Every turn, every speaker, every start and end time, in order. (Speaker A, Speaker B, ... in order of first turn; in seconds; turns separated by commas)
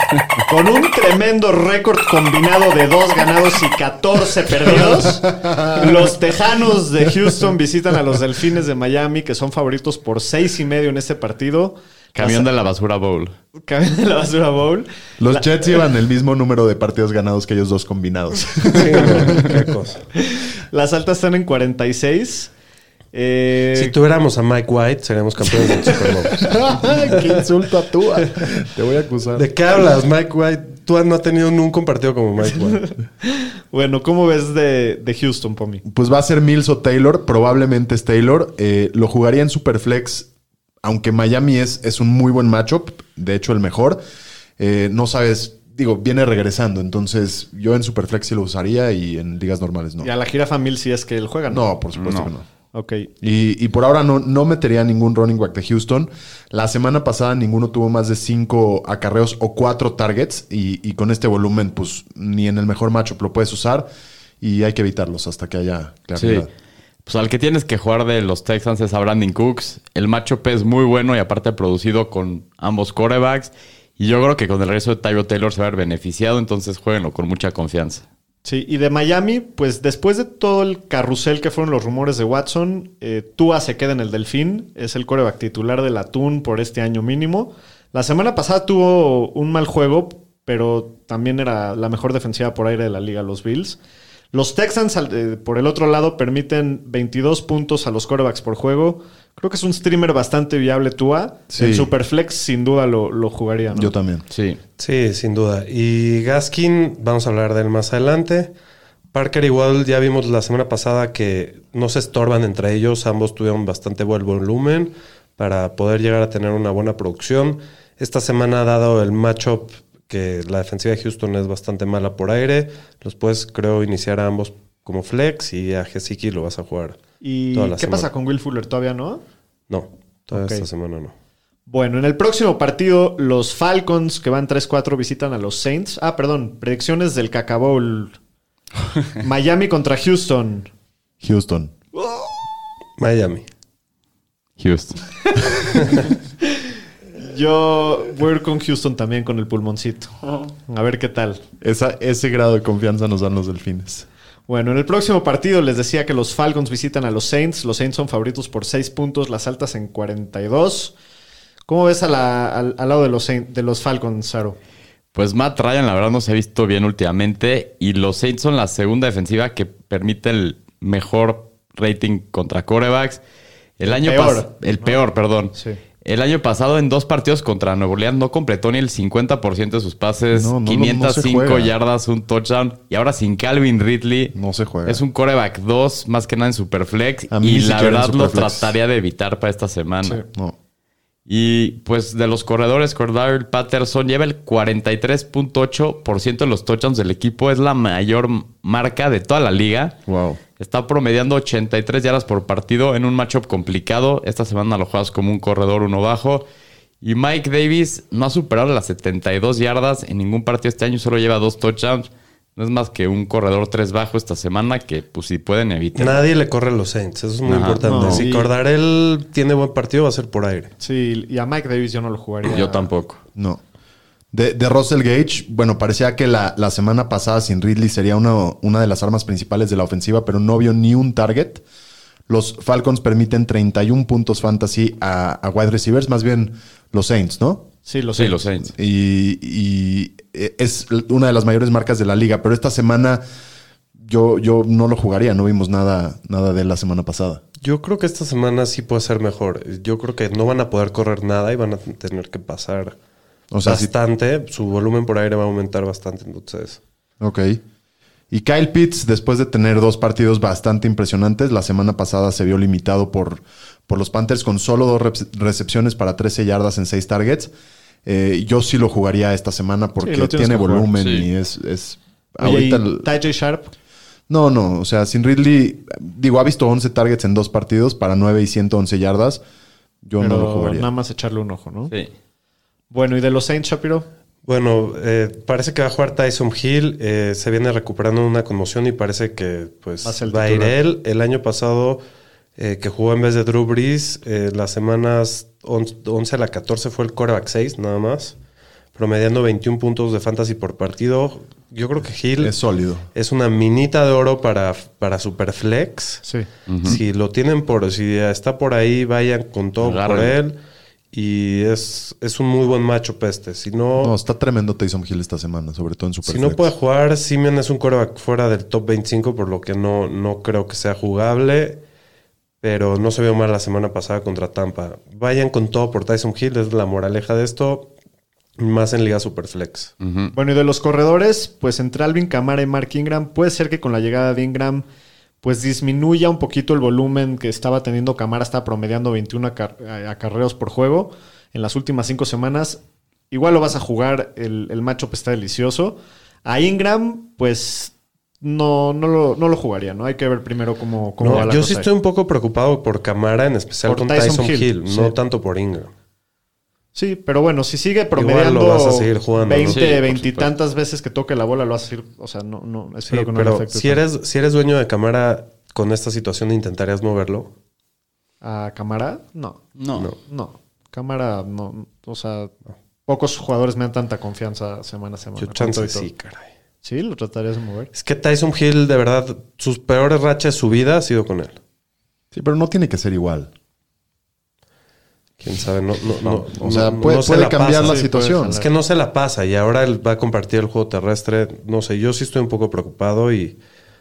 Speaker A: 0.5-12.5, Speaker B: 4.7-6.0, Speaker C: 12.2-13.3, Speaker A: 13.7-15.5, Speaker B: 15.2-19.5, Speaker D: 18.7-20.1, Speaker A: 20.2-22.5, Speaker A: 23.1-23.9, Speaker D: 23.7-26.5, Speaker B: 26.4-29.5, Speaker D: 29.4-32.9, Speaker A: 32.8-35.8, Speaker B: 35.9-40.3, Speaker B: 40.8-44.0, Speaker B: 44.6-50.1, Speaker A: 50.0-51.7, Speaker B: 51.5-52.5, Speaker C: 52.0-52.3, Speaker A: 52.7-53.1, Speaker B: 53.2-63.9, Speaker B: 64.4-66.5, Speaker C: 66.2-66.5, Speaker C: 67.1-78.0, Speaker A: 78.5-93.8, Speaker A: 94.3-104.0, Speaker B: 101.5-101.9, Speaker B: 103.7-104.2, Speaker C: 104.3-104.6, Speaker D: 104.8-108.5, Speaker D: 109.1-127.0, Speaker A: 127.2-129.2, Speaker D: 127.5-128.1, Speaker D: 129.7-131.1, Speaker A: 130.3-130.7, Speaker A: 131.7-138.2, Speaker A: 139.2-140.7, Speaker B: 141.2-141.7, Speaker D: 143.0-143.5, Speaker C: 144.6-145.0, Speaker A: 147.2-150.1, Speaker A: 150.7-151.4, Speaker B: 151.6-154.1, Speaker A: 154.5-160.9, Speaker A: 161.7-164.6, Speaker C: 165.2-173.2, Speaker C: 173.8-190.2, Speaker A: 173.9-175.0, Speaker A: 175.5-175.8, Speaker B: 180.3-181.7, Speaker B: 184.3-185.0, Speaker B: 187.3-188.8, Speaker C: 191.3-200.0, Speaker B: 200.1-200.4, Speaker C: 200.6-206.4, Speaker C: 207.0-216.2, Speaker D: 216.0-220.7, Speaker C: 217.4-217.8, Speaker A: 217.8-218.5, Speaker B: 217.9-218.3, Speaker A: 220.8-222.9, Speaker C: 222.4-223.2, Speaker B: 223.3-223.6, Speaker B: 224.3-231.6, Speaker B: 232.3-237.7, Speaker A: 237.9-238.4, Speaker C: 238.2-238.7, Speaker B: 238.7-243.2, Speaker B: 244.0-247.4, Speaker D: 247.6-253.0, Speaker B: 253.5-253.9, Speaker D: 253.6-256.8, Speaker B: 257.2-257.6, Speaker B: 258.3-267.5, Speaker B: 268.1-273.1, Speaker A: 270.0-270.9, Speaker C: 271.0-271.3, Speaker A: 272.4-273.7, Speaker B: 274.3-279.4, Speaker B: 280.1-280.9, Speaker A: 280.2-281.9, Speaker A: 282.9-284.1, Speaker D: 284.5-292.0, Speaker A: 290.0-290.8, Speaker D: 292.6-298.4, Speaker D: 298.9-302.6, Speaker B: 302.4-303.1, Speaker D: 303.1-306.3, Speaker C: 306.7-307.0, Speaker D: 306.8-310.6, Speaker C: 309.8-310.4, Speaker D: 311.1-314.1, Speaker B: 314.0-316.7, Speaker D: 316.2-321.8, Speaker D: 322.6-327.9, Speaker D: 328.6-329.9, Speaker C: 330.0-330.3, Speaker A: 330.3-334.9, Speaker A: 335.4-351.9, Speaker D: 351.2-355.9, Speaker A: 353.9-355.2, Speaker A: 356.9-364.0, Speaker D: 358.1-359.9, Speaker C: 359.7-360.5, Speaker D: 363.1-367.5, Speaker A: 368.4-369.6, Speaker C: 369.8-370.1, Speaker A: 370.2-372.5, Speaker A: 373.1-376.1, Speaker D: 375.4-376.5, Speaker A: 376.8-377.9, Speaker D: 377.9-381.6, Speaker B: 382.3-383.5, Speaker D: 385.4-393.6, Speaker B: 386.2-388.6, Speaker A: 387.8-388.7